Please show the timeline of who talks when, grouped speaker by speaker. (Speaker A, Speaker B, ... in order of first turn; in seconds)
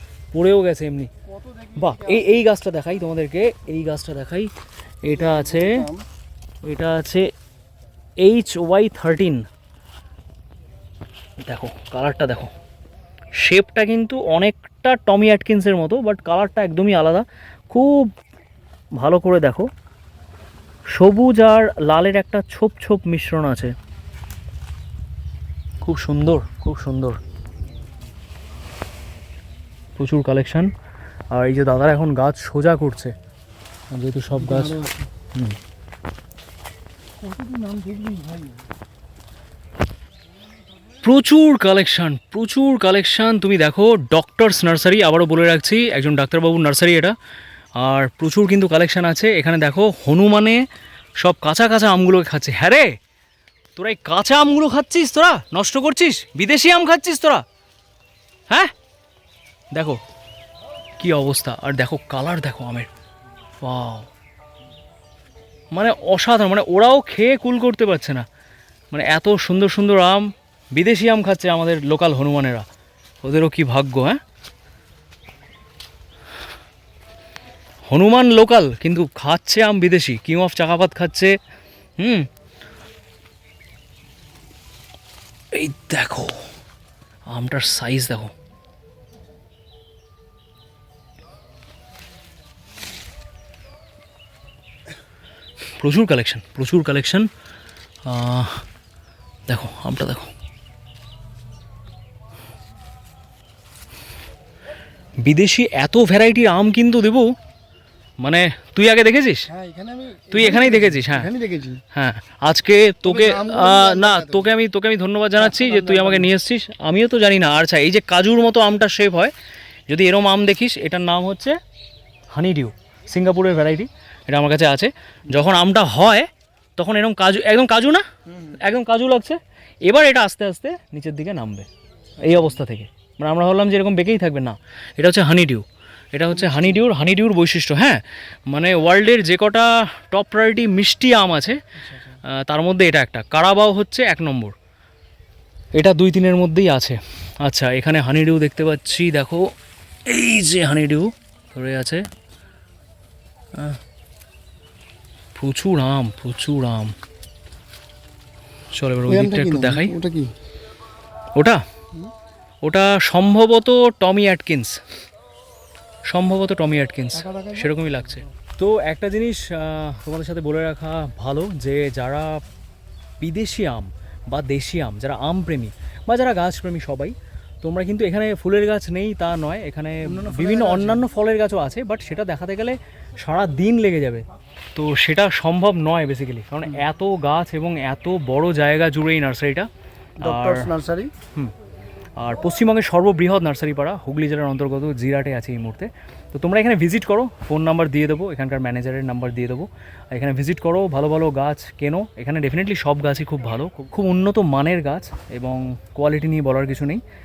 Speaker A: 0.3-1.1, 1.8-5.8, 6.6-7.3, 8.2-9.4, 11.4-12.5, 13.4-18.1, 19.0-19.7, 20.9-23.7, 25.8-27.2, 30.0-30.7, 31.3-33.1, 33.9-34.8, 35.3-35.6, 41.0-47.1, 47.8-50.6, 51.2-52.9, 53.8-57.4, 59.7-60.0, 61.0-62.9, 63.6-64.1, 65.7-68.2, 68.9-72.6, 73.2-74.2, 77.9-81.3, 82.0-82.3, 85.5-86.4, 87.3-88.3, 95.8-97.3, 98.0-98.6, 99.5-100.3, 105.2-107.3, 108.2-109.5, 110.3-111.3, 111.9-119.3, 119.9-121.5, 122.3-131.7, 132.2-141.6, 142.2-144.5, 145.7-149.4, 150.1-152.0, 155.3-156.9, 158.7-159.9, 161.3-161.6, 162.6-164.8, 166.1-172.4, 173.2-189.7, 190.2-190.7, 192.2-207.0
Speaker B: 1.2-2.4, 5.0-6.0, 34.3-35.1, 37.2-38.6, 109.5-111.8, 113.0-114.5, 115.4-116.3, 128.3-128.6, 132.2-132.6, 136.3-136.8, 141.8-142.2, 159.1-160.3, 167.1-168.2, 180.0-181.1, 190.2-191.1